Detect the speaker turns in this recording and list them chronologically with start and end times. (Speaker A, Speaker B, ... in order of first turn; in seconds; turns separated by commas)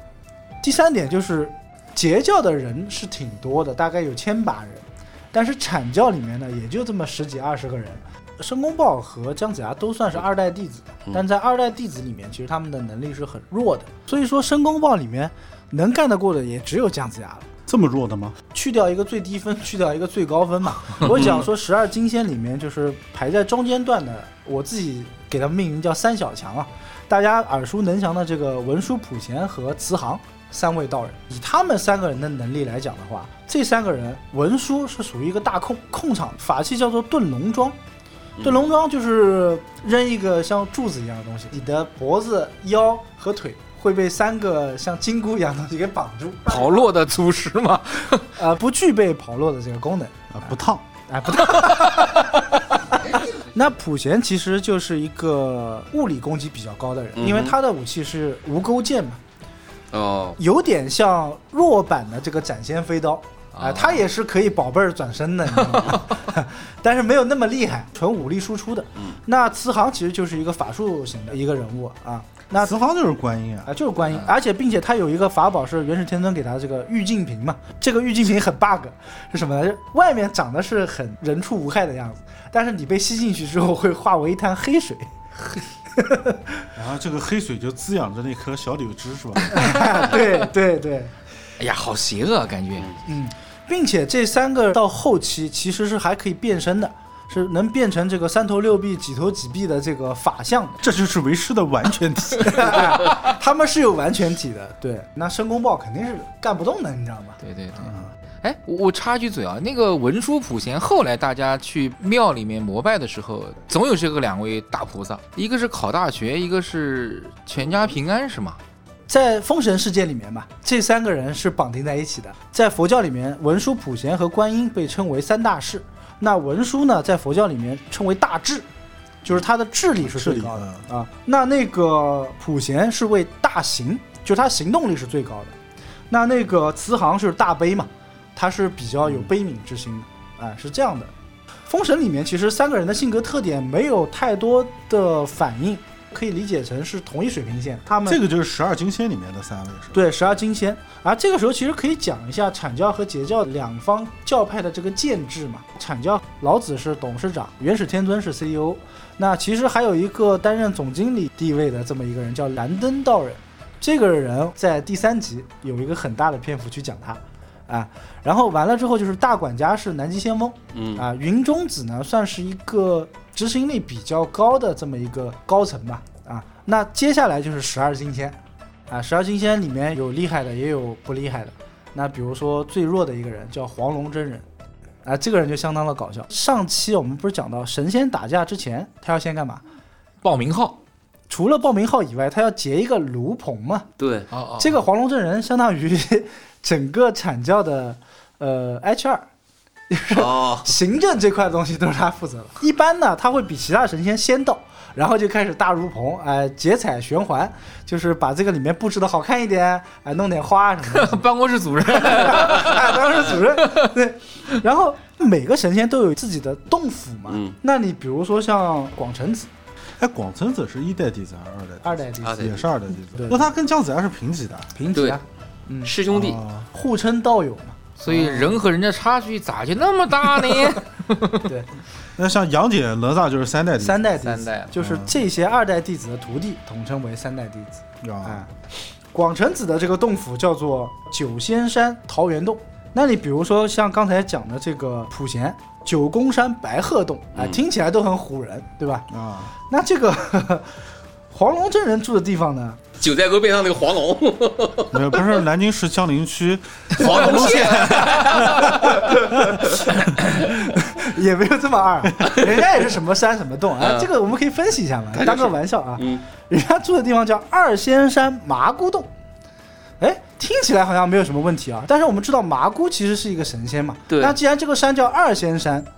Speaker A: 0.6-17.5, Speaker B: 17.7-18.4, Speaker A: 18.5-37.8, Speaker C: 21.0-21.5, Speaker C: 38.4-38.7, Speaker A: 38.4-46.9, Speaker D: 46.5-48.3, Speaker A: 48.4-50.2, Speaker B: 50.3-50.9, Speaker A: 51.1-59.2, Speaker D: 51.3-52.1, Speaker C: 57.2-57.5, Speaker C: 59.9-60.4, Speaker A: 60.4-72.7, Speaker D: 63.6-64.0, Speaker B: 72.6-73.7, Speaker A: 73.7-85.1, Speaker A: 85.9-86.7, Speaker B: 86.8-89.9, Speaker A: 89.5-91.1, Speaker D: 91.6-93.0, Speaker A: 93.1-100.8, Speaker B: 100.8-103.0, Speaker A: 102.4-107.4, Speaker D: 107.4-118.6, Speaker B: 107.8-108.1, Speaker A: 119.1-128.7, Speaker A: 129.2-135.6, Speaker B: 130.0-130.8, Speaker A: 136.1-141.1, Speaker A: 141.7-148.2, Speaker B: 148.1-150.1, Speaker A: 149.9-178.4, Speaker C: 170.7-171.0, Speaker A: 178.9-184.4, Speaker A: 185.1-189.6, Speaker D: 190.2-190.8, Speaker A: 191.3-193.9, Speaker C: 194.0-194.3, Speaker D: 194.3-194.8, Speaker A: 194.6-199.3, Speaker A: 199.9-211.2, Speaker C: 200.1-200.7, Speaker D: 210.8-213.9, Speaker A: 211.9-219.5, Speaker C: 217.3-217.6, Speaker B: 220.0-224.7, Speaker A: 221.8-222.5, Speaker C: 222.2-222.7, Speaker A: 223.1-223.5, Speaker A: 224.8-225.9, Speaker C: 224.9-225.2, Speaker C: 225.8-226.4, Speaker B: 226.1-226.7, Speaker A: 226.7-228.6, Speaker D: 228.0-231.5, Speaker B: 232.2-234.2, Speaker A: 233.8-238.5, Speaker D: 234.2-234.7, Speaker B: 234.8-235.1, Speaker B: 238.0-238.4, Speaker A: 239.1-249.1, Speaker B: 249.1-249.5, Speaker A: 249.7-250.8, Speaker A: 251.3-252.8, Speaker C: 253.0-255.2, Speaker B: 254.9-259.6, Speaker C: 256.9-259.1, Speaker A: 258.7-259.7, Speaker A: 260.4-269.1, Speaker C: 263.8-264.1, Speaker C: 265.1-266.2, Speaker A: 270.0-275.9, Speaker C: 274.1-274.4